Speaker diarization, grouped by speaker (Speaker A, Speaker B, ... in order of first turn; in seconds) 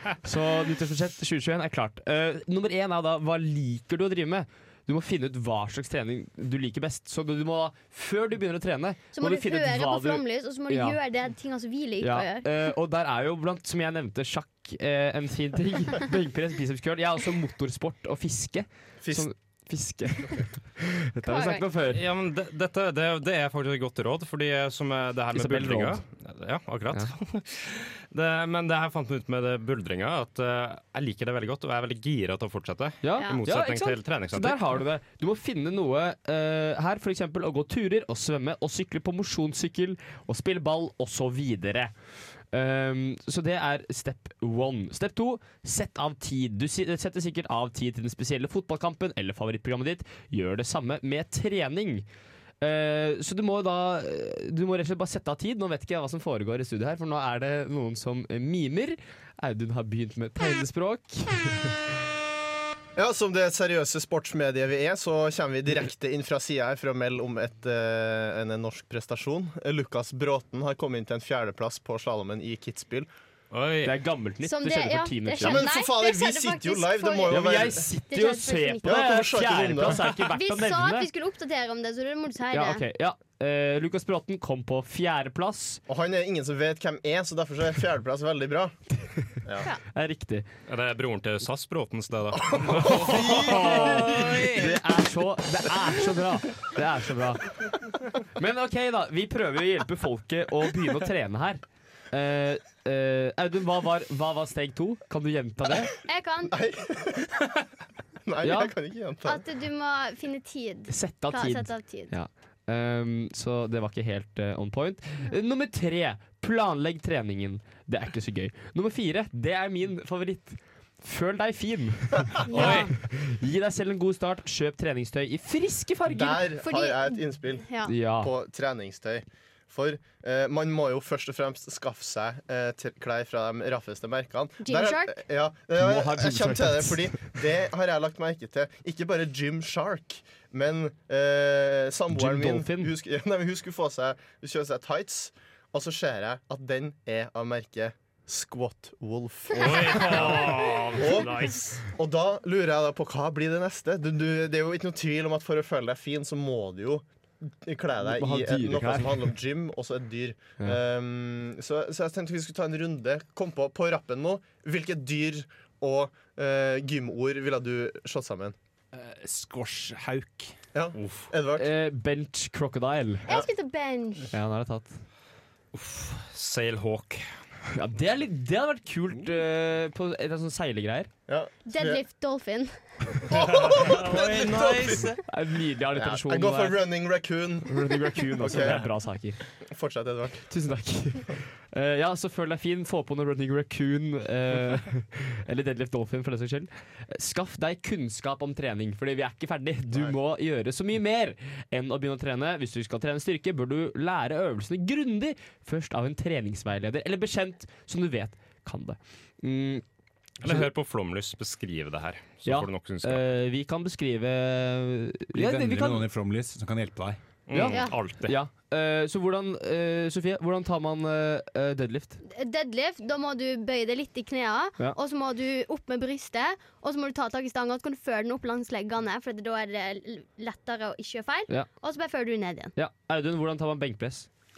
Speaker A: 0.2-11.0, 12.0-22.0, 25.3-26.0, 33.0-41.9, 42.5-52.0, 52.6-61.7, 73.8-75.6, 77.3-81.1, 82.5-85.8, 89.9-90.4, 92.9-97.5, 98.3-105.9, 108.4-108.7, 110.9-126.4, 127.9-128.3, 135.8-137.3, 142.1-142.9, 158.0-159.3, 171.6-173.3, 174.3-175.0, 177.7-181.1, 185.3-186.8, 187.7-189.4, 190.5-209.8, 212.4-216.0, 217.5-222.2, 232.8-234.3
Speaker B: 9.1-12.5, 21.3-21.6, 74.4-79.0, 80.0-82.8, 106.0-106.6, 109.2-112.1, 122.5-122.9, 126.6-127.9, 134.6-135.2, 173.2-174.3, 181.7-183.4, 217.7-218.0, 222.3-232.7
Speaker C: 19.0-19.3, 62.9-73.1, 75.4-77.9, 78.8-80.1, 85.9-88.7, 89.4-89.7, 92.3-94.7, 106.5-107.5, 108.2-109.4, 126.1-168.6, 170.7-171.7, 181.3-182.0, 183.3-185.2, 185.9-188.8, 189.6-190.4
Speaker D: 21.9-34.8, 73.5-73.9, 90.7-94.5, 122.5-122.9, 149.5-151.8, 171.0-171.3, 175.7-177.2, 183.3-185.2, 210.4-213.2, 217.5-218.3
Speaker E: 168.9-170.5, 215.3-217.2